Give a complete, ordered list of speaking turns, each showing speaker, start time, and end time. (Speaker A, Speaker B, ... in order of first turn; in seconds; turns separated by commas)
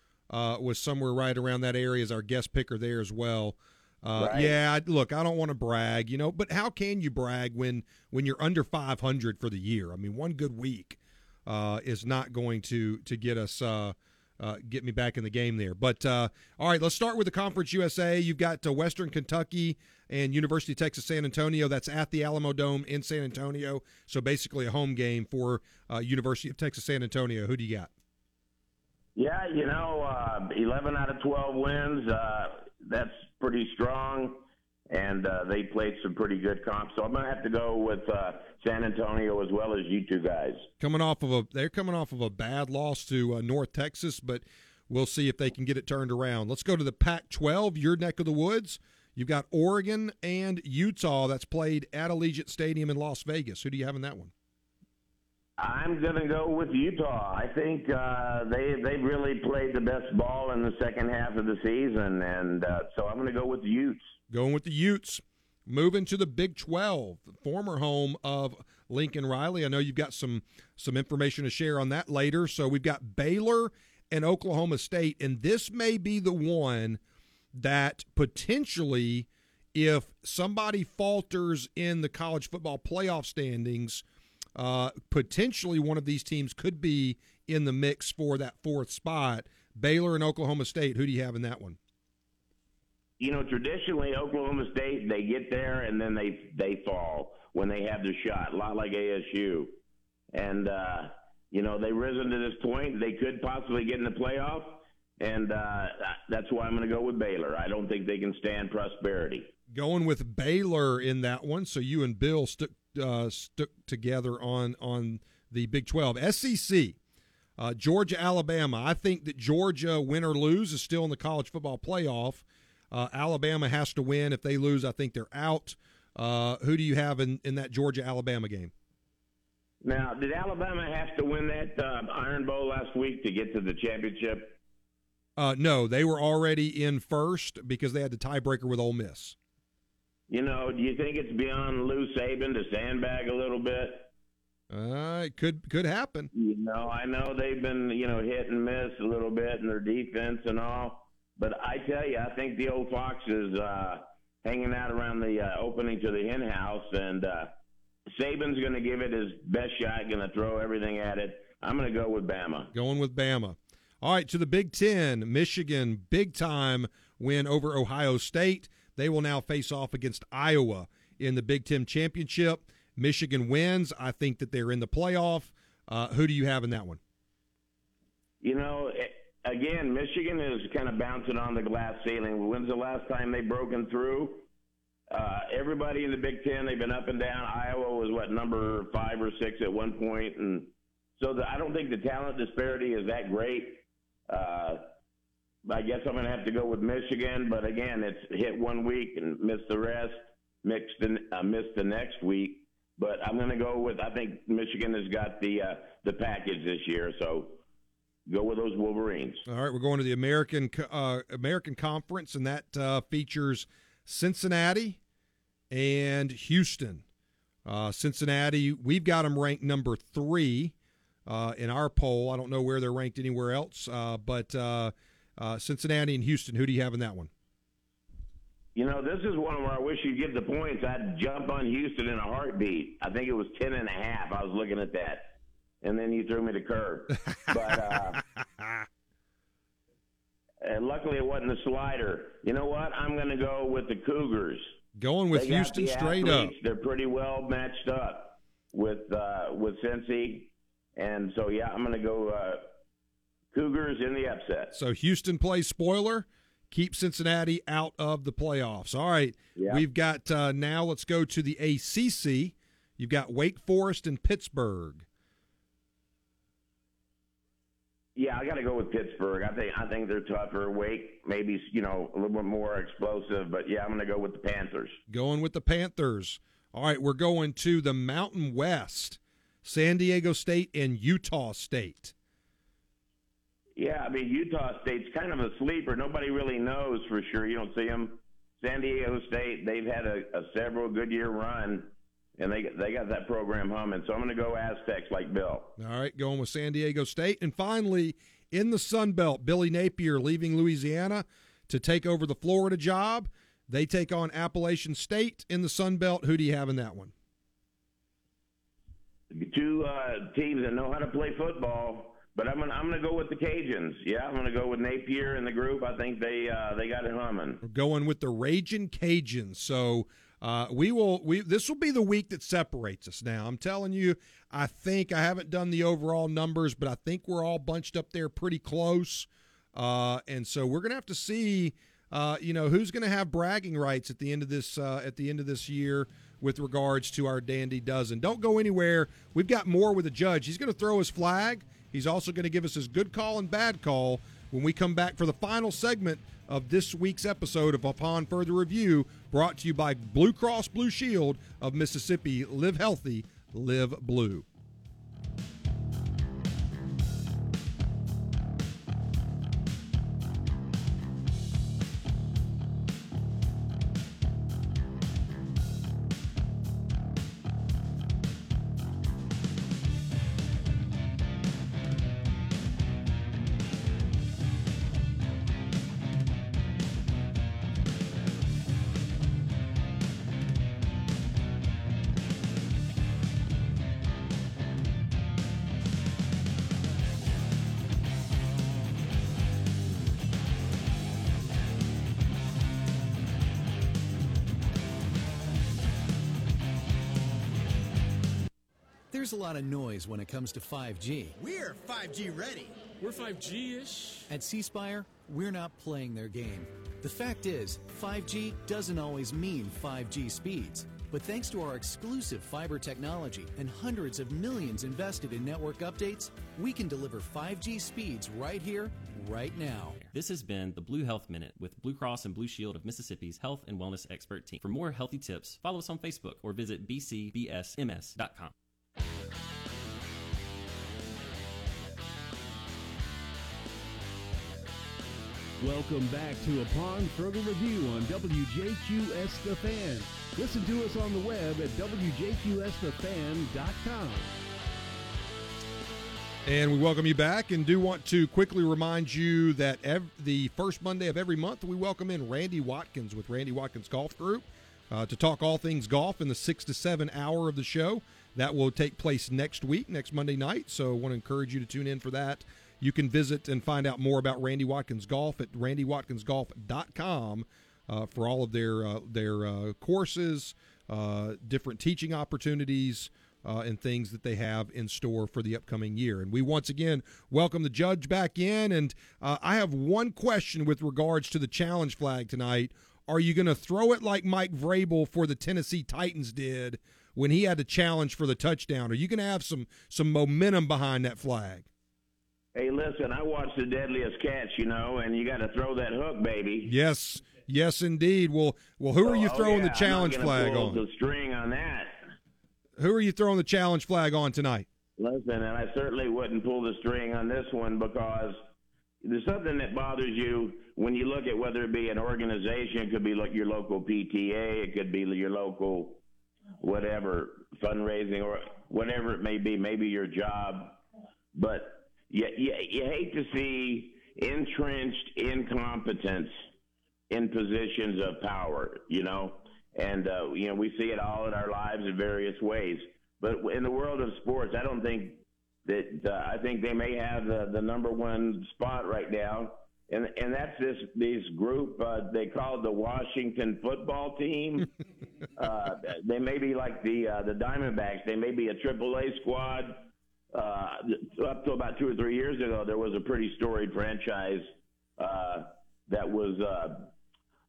Speaker A: 0.3-27.9, Speaker B: 4.2-4.5, Speaker B: 29.1-40.6, Speaker A: 40.8-54.3, Speaker B: 55.6-64.1, Speaker A: 64.3-77.0, Speaker A: 77.5-84.0, Speaker A: 84.5-91.8, Speaker B: 93.2-99.8, Speaker B: 100.3-109.5, Speaker A: 109.7-117.0, Speaker A: 117.6-128.7, Speaker B: 129.8-134.6, Speaker A: 135.4-139.3, Speaker B: 140.3-144.1, Speaker A: 144.7-146.3, Speaker B: 146.3-157.5, Speaker B: 158.1-162.7, Speaker A: 162.7-177.0, Speaker B: 178.4-184.4, Speaker B: 185.1-194.8, Speaker B: 195.7-207.6, Speaker B: 208.3-209.4, Speaker A: 209.5-215.0, Speaker A: 215.7-217.0, Speaker A: 217.6-220.7, Speaker A: 221.2-227.3, Speaker B: 228.7-238.2, Speaker A: 238.6-238.8, Speaker B: 240.6-244.7, Speaker A: 244.9-246.5, Speaker B: 245.3-252.7, Speaker B: 253.5-254.7, Speaker A: 254.7-265.1, Speaker B: 259.6-259.8, Speaker B: 268.1-275.0, Speaker A: 275.1-282.1, Speaker B: 283.8-295.7, Speaker A: 295.8-307.1, Speaker B: 309.3-317.6, Speaker A: 317.6-354.4, Speaker C: 399.1-402.9, Speaker C: 404.3-420.0, Speaker D: 420.0-428.5, Speaker E: 435.6-444.3, Speaker A: 446.4-491.7, Speaker B: 492.5-496.7, Speaker A: 496.6-500.8, Speaker B: 499.0-501.9, Speaker A: 502.8-504.7, Speaker B: 505.0-508.4, Speaker B: 509.0-516.0, Speaker B: 516.6-520.8, Speaker B: 521.3-526.3, Speaker B: 527.1-544.7, Speaker B: 545.4-554.5, Speaker B: 555.0-556.9